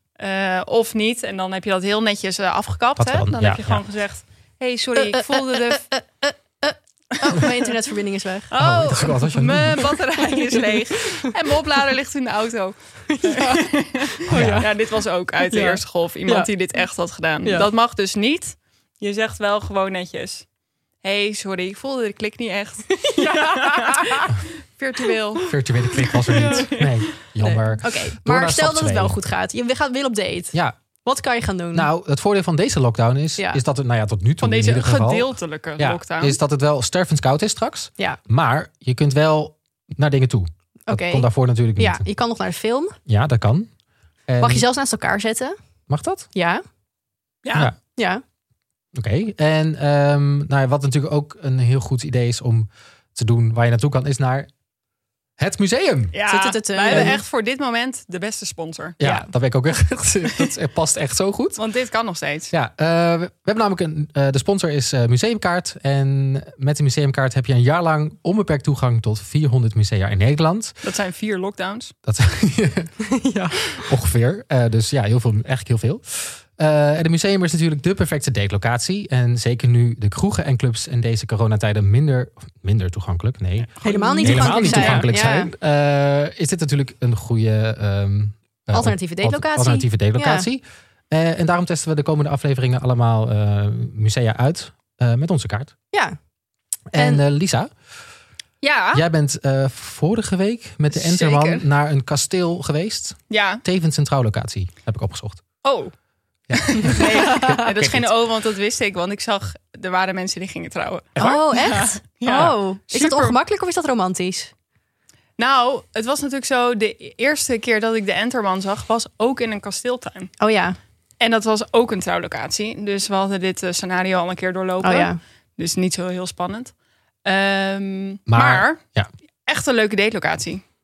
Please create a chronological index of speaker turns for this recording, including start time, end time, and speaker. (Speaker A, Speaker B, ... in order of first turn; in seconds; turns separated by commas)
Speaker A: 0.2-5.9, Speaker B: 3.0-3.8, Speaker C: 5.0-8.5, Speaker A: 8.5-20.4, Speaker B: 8.6-9.9, Speaker C: 13.1-14.7, Speaker B: 14.3-14.7, Speaker C: 15.4-16.5, Speaker C: 17.4-17.7, Speaker A: 21.0-25.5, Speaker C: 22.9-24.3, Speaker B: 25.5-29.2, Speaker A: 26.3-27.1, Speaker C: 26.3-26.7, Speaker C: 27.4-31.9, Speaker B: 31.7-42.0, Speaker A: 34.4-36.4, Speaker C: 40.9-43.0, Speaker B: 43.1-43.7, Speaker B: 44.3-44.6, Speaker C: 44.4-45.5, Speaker B: 45.9-46.3, Speaker C: 46.3-46.6, Speaker A: 47.4-47.7, Speaker C: 48.0-48.2, Speaker B: 48.9-54.5, Speaker B: 55.4-56.1, Speaker A: 56.1-59.0, Speaker C: 56.3-57.2, Speaker B: 56.9-57.1, Speaker B: 59.0-61.6, Speaker C: 59.0-59.3, Speaker A: 61.6-62.5, Speaker B: 62.5-70.7, Speaker A: 70.8-71.9, Speaker B: 72.0-72.9, Speaker C: 73.1-73.7, Speaker B: 73.8-95.7, Speaker A: 83.8-85.0, Speaker C: 83.8-85.5, Speaker C: 88.7-90.5, Speaker C: 95.9-96.2, Speaker B: 96.9-97.7, Speaker C: 96.9-97.2, Speaker A: 98.6-99.0, Speaker B: 98.9-105.4, Speaker A: 100.9-101.7, Speaker A: 103.3-103.6, Speaker A: 105.6-105.9, Speaker B: 106.5-108.1, Speaker A: 106.5-113.3, Speaker C: 107.0-107.6, Speaker C: 111.2-114.5, Speaker A: 115.4-120.3, Speaker C: 120.4-120.8, Speaker A: 121.2-126.7, Speaker C: 124.8-125.2, Speaker A: 127.2-128.8, Speaker B: 128.3-129.1, Speaker A: 129.5-130.6